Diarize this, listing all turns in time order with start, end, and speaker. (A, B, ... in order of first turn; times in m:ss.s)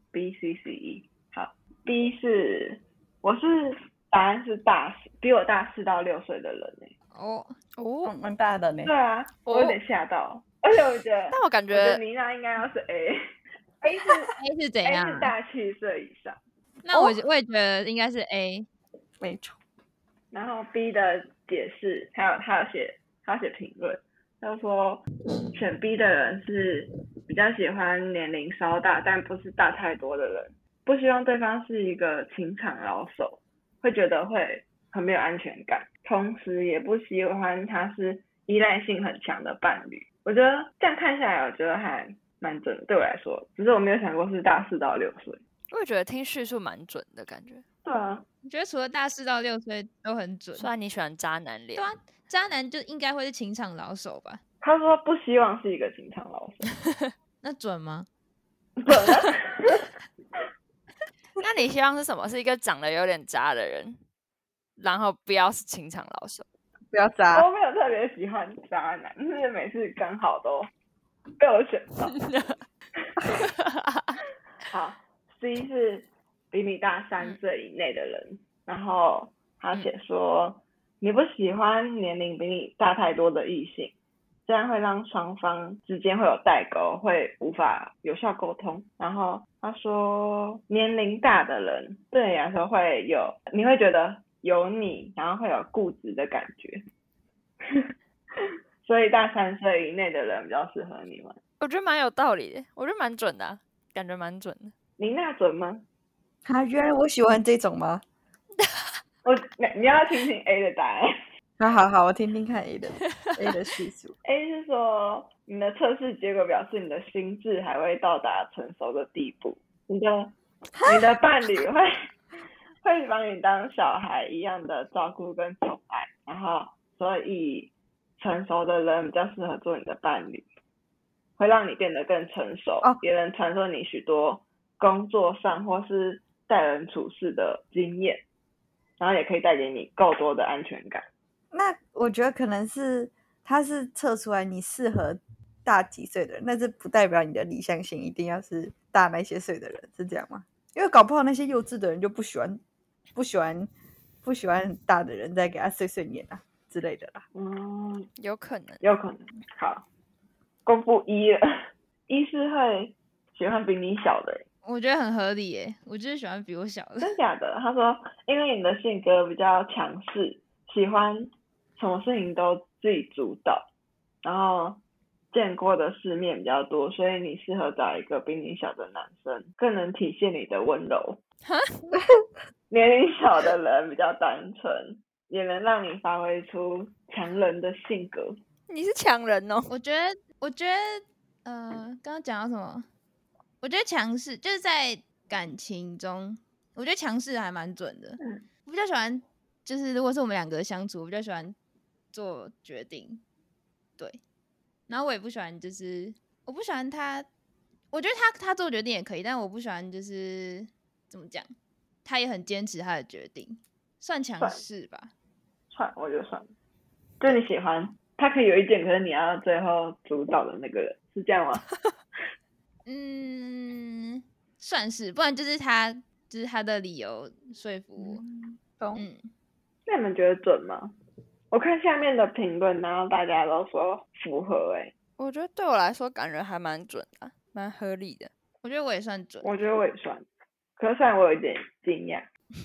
0:00.1-0:06.9 A
0:07.1-0:07.6 B
0:07.8-0:08.1 C
0:08.0-0:08.9 D
0:08.8-0:13.2 A
0:09.5-0:09.8 C
0:11.3-0:12.0 C
0:13.8-0:16.4 A
0:14.4-0:15.3 B
0:16.8-0:18.7 B
0:19.2-0:19.6 D
0:20.3-0:45.4 A
0:45.7-0:47.6 C
0:47.8-0:48.2 A
0:48.4-0:50.7 B
0:50.6-0:51.9 C
0:51.8-0:54.4 B
0:54.6-0:56.7 A
0:57.4-0:58.1 B
0:58.8-0:59.8 A
1:01.4-1:04.0 C
1:04.8-1:06.5 C
1:06.9-1:07.5 D
1:07.3-1:10.7 A
1:11.4-1:12.2 A
1:12.2-1:12.6 C
1:13.0-1:13.4 A
1:13.4-1:14.2 C
1:14.7-1:24.0 A
1:24.5-1:36.8 A
1:37.6-1:41.4 A
1:41.6-1:44.7 C
1:45.0-1:45.8 A
1:46.4-1:48.0 D
1:48.6-1:48.9 C
1:49.2-1:51.1 A
1:51.6-1:54.1 D
1:53.2-1:53.6 C
1:54.2-2:01.9 A
2:00.8-2:01.1 D
2:02.8-2:10.4 A
2:11.4-2:18.2 A
2:19.0-2:21.0 A
2:21.5-2:32.6 D
2:33.2-2:33.7 D
2:34.2-2:37.2 D
2:37.3-2:38.1 A
2:38.2-2:38.8 C
2:38.8-2:39.9 A
2:40.7-2:41.4 A
2:42.1-2:44.4 A
2:44.6-2:47.2 B
2:47.0-2:53.7 A
2:54.2-2:54.8 A
2:55.3-3:01.2 A
3:01.4-3:01.8 C
3:02.7-3:08.4 A
3:08.7-3:09.7 C
3:09.7-3:12.9 B
3:13.6-3:21.6 B
3:18.2-3:18.4 A
3:22.1-3:23.2 B
3:24.9-3:27.3 B
3:27.9-3:31.5 B
3:32.0-3:35.1 B
3:35.7-3:36.5 A
3:37.2-3:41.7 A
3:42.9-3:48.2 B
3:48.0-3:49.0 D
3:49.0-3:49.3 B
3:49.9-3:50.9 A
3:51.5-3:54.9 A
3:55.2-3:58.3 C
3:58.6-3:59.5 B
3:59.4-4:00.2 A
4:00.8-4:02.3 A